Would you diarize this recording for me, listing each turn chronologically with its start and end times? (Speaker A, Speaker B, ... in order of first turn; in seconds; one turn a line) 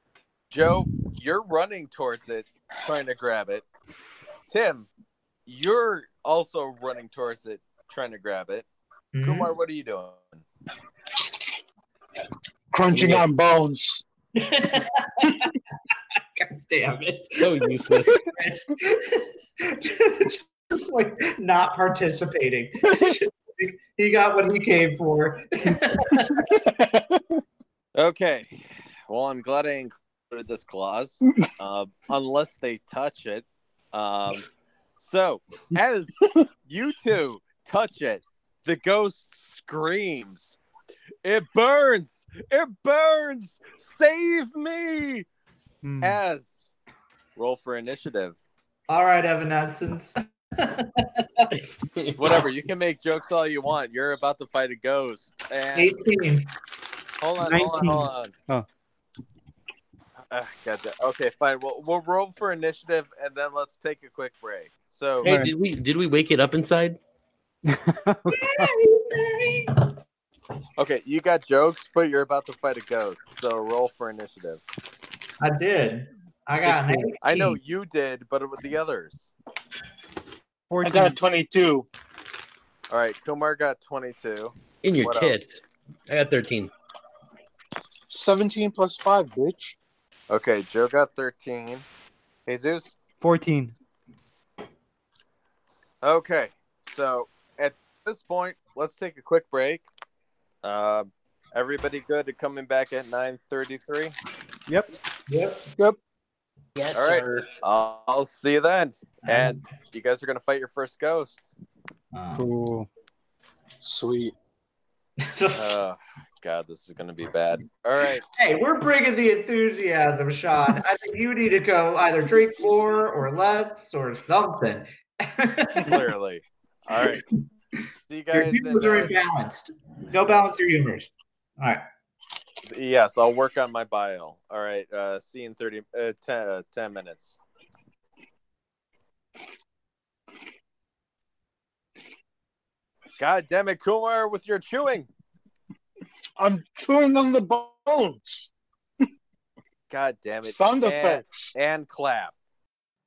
Speaker A: 0.5-3.6
Speaker A: 4.5-4.9
Speaker A: 5.5-8.7
Speaker B: 9.1-9.5
Speaker A: 9.2-10.4
Speaker C: 12.7-14.0
Speaker D: 12.9-13.2
Speaker B: 14.3-15.6
Speaker B: 16.2-17.6
Speaker D: 17.4-18.3
Speaker B: 18.2-26.6
Speaker C: 26.5-27.2
Speaker A: 27.9-34.4
Speaker A: 35.0-40.6
Speaker A: 41.2-45.2
Speaker E: 45.8-46.2
Speaker A: 46.0-46.7
Speaker A: 47.4-48.4
Speaker B: 48.9-51.5
Speaker D: 51.5-52.3
Speaker A: 52.2-55.9
Speaker B: 55.8-56.5
Speaker A: 57.2-58.3
Speaker E: 57.4-58.7
Speaker A: 60.3-65.3
Speaker D: 65.2-67.0
Speaker E: 65.2-65.5
Speaker E: 67.7-68.7
Speaker B: 68.3-69.9
Speaker A: 70.8-74.6
Speaker B: 75.4-77.6
Speaker D: 76.6-77.1
Speaker A: 77.2-79.3
Speaker E: 80.7-81.2
Speaker C: 80.8-81.9
Speaker A: 82.9-85.3
Speaker D: 84.8-86.7
Speaker C: 88.1-89.8
Speaker A: 90.3-91.8
Speaker A: 92.5-92.9
Speaker E: 93.2-93.7
Speaker A: 96.0-99.8
Speaker A: 100.6-104.1
Speaker B: 105.3-105.7
Speaker D: 106.7-107.5
Speaker A: 106.9-111.5
Speaker B: 109.2-109.6
Speaker B: 112.1-112.5
Speaker E: 112.3-112.9
Speaker C: 113.8-114.3
Speaker B: 115.2-115.7
Speaker A: 115.5-118.2
Speaker B: 118.3-126.1
Speaker A: 125.8-127.2
Speaker B: 127.0-127.2
Speaker A: 128.1-129.1
Speaker B: 128.3-131.8
Speaker A: 132.7-137.4
Speaker A: 143.2-145.1
Speaker C: 146.4-148.5
Speaker A: 149.9-152.3
Speaker C: 150.4-151.5